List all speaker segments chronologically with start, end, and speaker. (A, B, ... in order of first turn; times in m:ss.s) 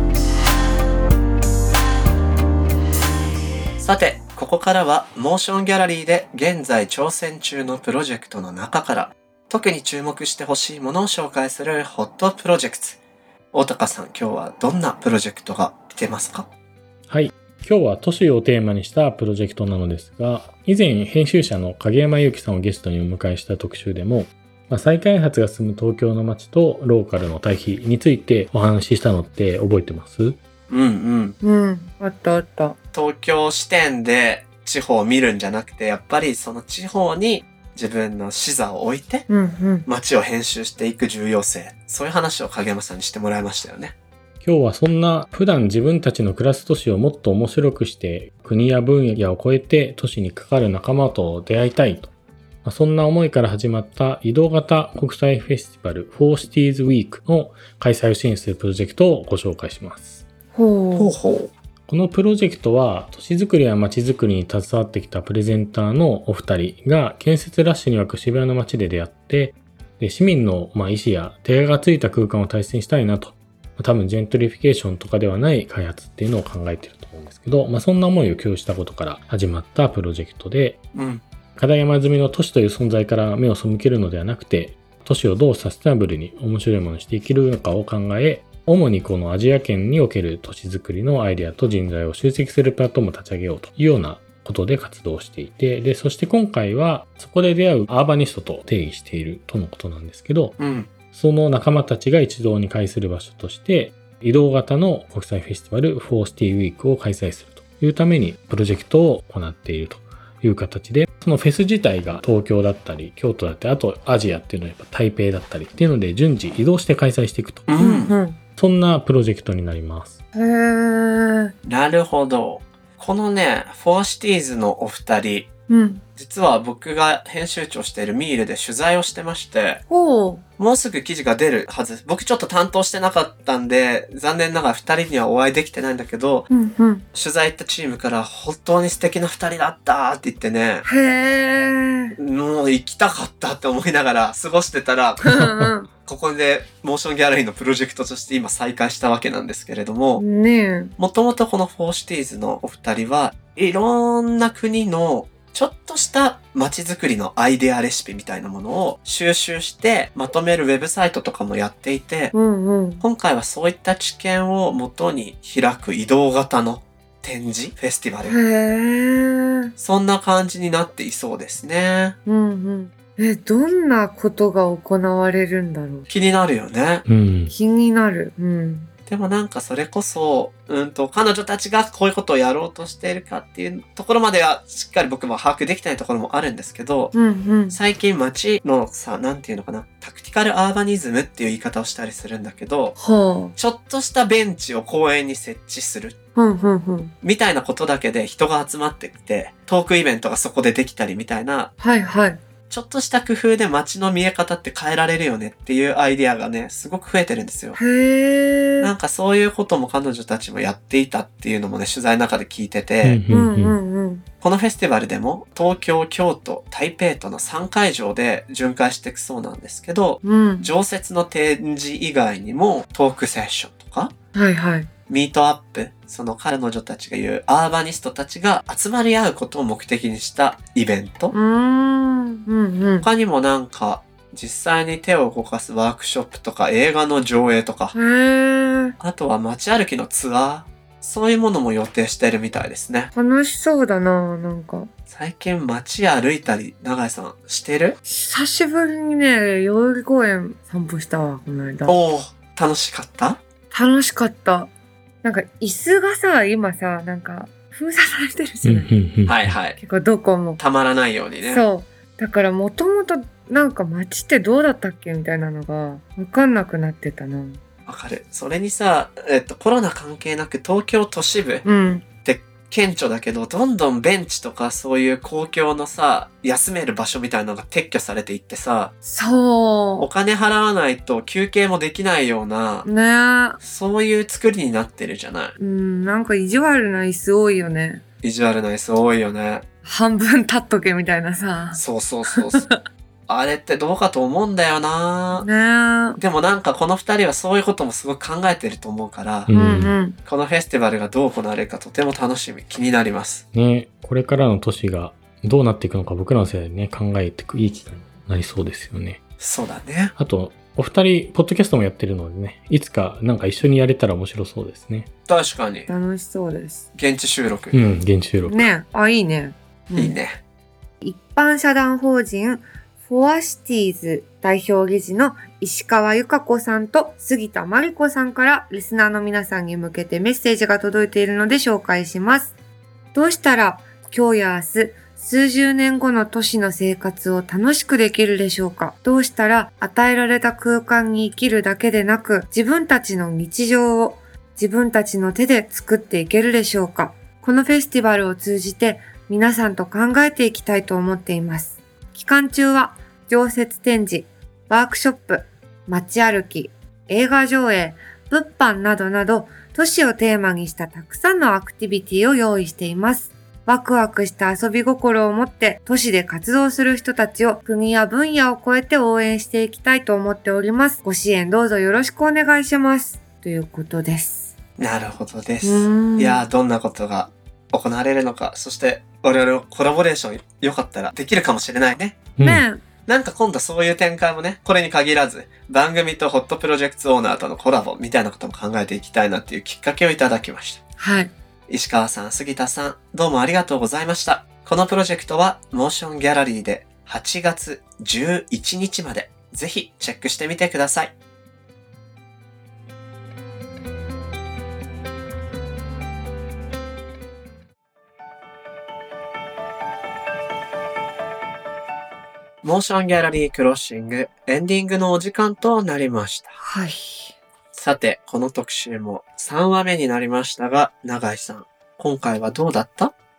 0:03.8-0:13.0 A
0:13.5-0:16.5 A
0:17.1-0:30.4 B
0:30.7-0:31.4 A
0:31.4-0:32.8 C
0:32.9-0:39.3 A
0:39.3-0:39.9 C
0:39.8-0:43.9 A
0:44.4-0:52.1 B
0:52.6-1:00.2 B
1:00.5-1:01.1 C
1:01.0-1:01.5 A
1:01.9-1:20.8 B
1:20.9-1:21.2 A
1:21.6-1:40.6 B
1:40.6-1:40.9 A
1:41.1-1:57.7 B
1:57.7-1:58.1 A
1:57.8-1:58.4 C
1:58.6-2:00.2 B
2:00.3-2:01.5 C
2:01.6-2:05.5 A
2:05.7-2:06.0 C
2:06.2-2:09.8 A
2:09.9-2:10.4 C
2:10.6-2:16.5 A
2:16.5-2:17.0 C
2:17.1-2:20.9 A
2:20.8-2:22.2 C
2:22.2-2:25.3 A
2:25.2-2:25.9 C
2:25.3-2:25.7 B
2:26.0-2:30.2 A
2:30.2-2:31.0 C
2:31.0-2:42.3 A
2:42.3-2:43.0 C
2:43.0-2:48.4 A
2:48.2-2:49.7 C
2:49.8-2:52.2 A
2:52.2-2:56.1 C
2:56.1-2:57.0 A
2:57.0-2:57.5 B
2:57.5-2:58.9 C
2:59.1-3:07.1 A
3:07.1-3:07.8 C
3:07.7-3:13.0 A
3:13.0-3:13.5 C
3:13.6-3:16.2 A
3:16.4-3:17.1 C
3:17.2-3:21.7 A
3:21.8-3:22.4 C
3:22.7-3:27.8 A
3:27.8-3:28.9 C
3:28.8-3:33.2 A
3:33.0-3:33.8 B
3:33.3-3:34.2 C
3:34.4-3:44.1 A
3:40.2-3:40.7 C
3:44.3-3:44.9 C
3:45.1-3:51.3 A
3:51.3-3:53.1 C
3:53.0-3:57.9 A
3:57.9-3:59.0 C
3:59.0-4:03.1 A
4:03.1-4:04.9 C
4:05.1-4:08.0 A
4:08.0-4:11.9 C
4:11.8-4:13.4 A
4:13.7-4:14.7 C
4:15.2-4:18.9 C
4:18.6-4:19.6 B
4:19.2-4:19.8 A
4:19.7-4:20.6 C
4:20.6-4:21.6 A
4:21.4-4:27.6 C
4:27.9-4:31.6 A
4:31.6-4:32.0 C
4:32.2-4:38.9 A
4:39.0-4:40.1 C
4:40.0-4:42.9 A
4:42.8-4:43.6 C
4:43.6-4:45.5 A
4:45.6-4:48.0 C
4:48.2-4:49.6 A
4:49.8-4:51.8 C
4:51.7-4:52.6 A
4:52.4-4:52.7 C
4:53.3-4:55.5 A
4:55.4-4:56.2 C
4:56.2-4:59.5 A
4:59.5-5:00.0 B
4:59.5-5:00.2 C
5:00.2-5:03.4 A
5:03.5-5:09.2 B
5:09.4-5:10.1 A
5:10.2-5:15.1 B
5:15.3-5:15.9 A
5:15.9-5:16.9 C
5:16.9-5:17.8 A
5:17.7-5:18.7 B
5:18.4-5:20.2 C
5:19.9-5:20.4 A
5:21.0-5:32.5 C
5:33.1-6:14.5 C
6:14.8-6:22.3 A
6:15.6-6:16.4 C
6:22.4-6:22.6 B
6:22.4-6:22.8 C
6:23.1-6:30.8 A
6:31.0-6:31.3 C
6:31.7-6:41.1 A
6:52.6-6:56.6 A
6:56.6-6:57.4 C
6:57.7-7:03.1 A